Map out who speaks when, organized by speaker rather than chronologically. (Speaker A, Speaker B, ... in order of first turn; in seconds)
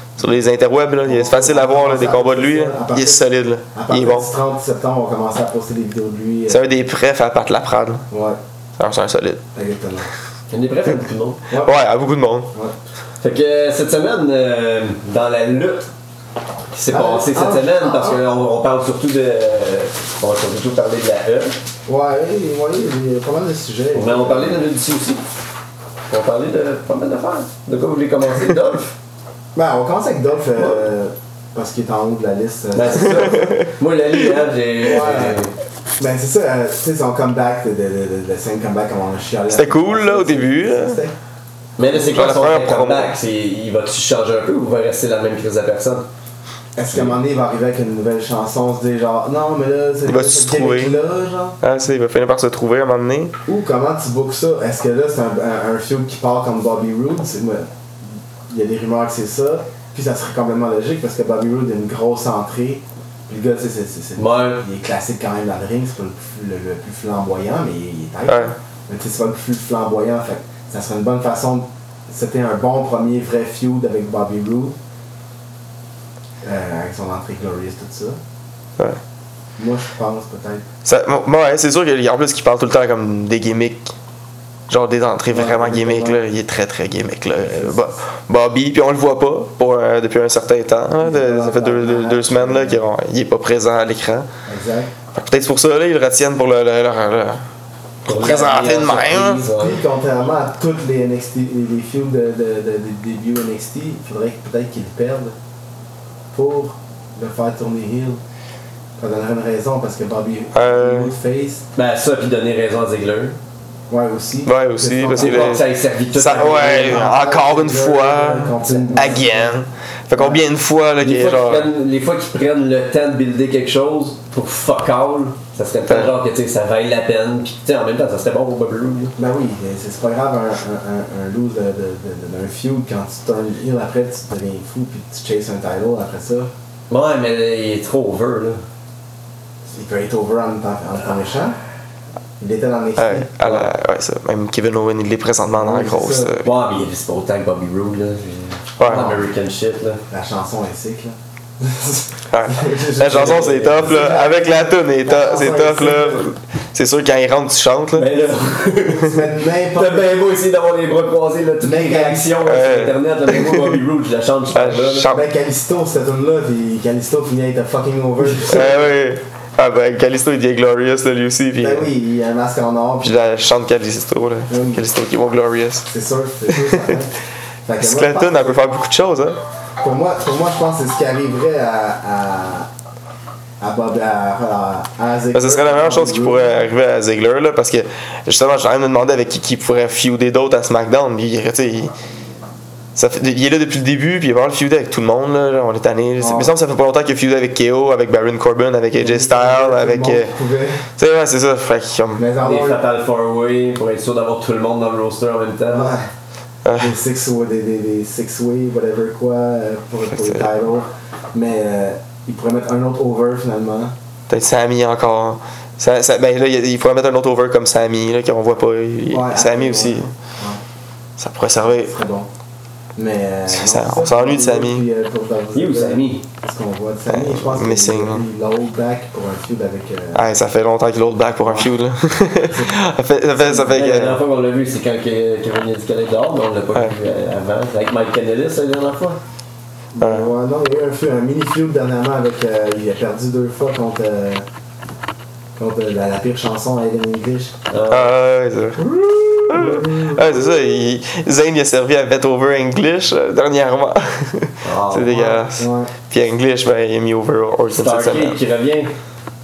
Speaker A: 0.2-4.3, 6.5-8.0, 8.8-9.4, 11.6-12.5, 33.2-33.6, 39.5-41.0, 42.0-43.1, 50.0-51.0, 51.6-53.3, 68.3-68.5, 80.8-83.9, 84.7-94.3, 95.1-97.4, 98.0-99.4, 110.5-111.1, 114.5-121.7, 143.0-146.4, 148.8-149.2, 152.3-158.1, 162.4-163.7, 164.5-165.2, 168.4-171.9, 173.0-175.9, 176.5-177.0, 177.8-179.4, 185.3-191.9, 192.9-200.3, 201.0-202.2, 206.6-206.9, 214.3-220.1, 221.2-221.9, 223.5-224.8, 227.1-228.2, 230.1-234.2, 240.0-240.3, 247.9-248.8, 249.5-258.4
Speaker B: 1.0-6.7, 8.1-8.4, 9.5-10.1, 11.5-11.8, 16.9-18.2, 21.9-24.6, 29.5-33.5, 34.8-35.5, 36.0-41.1, 46.8-51.6, 53.5-57.7, 58.5-74.8, 76.4-78.2, 79.6-80.6, 85.3-86.2, 87.4-87.9, 91.0-92.8, 94.5-94.9, 99.5-105.3, 106.3-108.2, 109.0-111.6, 113.9-115.6, 116.6-119.5, 120.1-120.4, 129.2-136.5, 139.7-141.6, 142.4-143.7, 145.5-146.4, 150.1-156.2, 159.0-160.1, 161.6-162.4, 165.1-168.9, 171.6-173.1, 174.5-174.8, 175.9-178.8, 179.8-182.7, 183.6-186.5, 196.2-196.5, 199.0-200.9, 202.2-202.8, 205.7-206.1, 206.8-213.9, 219.1-220.6, 221.6-222.3, 222.9-230.2, 231.4-231.7, 232.4-232.8, 239.9-244.4, 245.6-247.5, 248.9-250.6, 255.0-255.9
Speaker C: 10.5-11.4, 13.2-15.9, 16.7-21.6, 23.9-25.2, 26.1-28.9, 30.6-30.8, 32.7-35.5, 41.8-46.0, 64.2-64.6, 98.0-99.8, 111.8-113.4, 115.1-117.1, 118.7-119.2, 121.0-129.1, 136.9-138.6, 146.4-150.0, 153.0-153.9, 157.9-165.1, 202.4-205.9, 225.5-226.2, 233.4-239.2, 247.7-248.1, 254.6-255.2, 257.8-258.9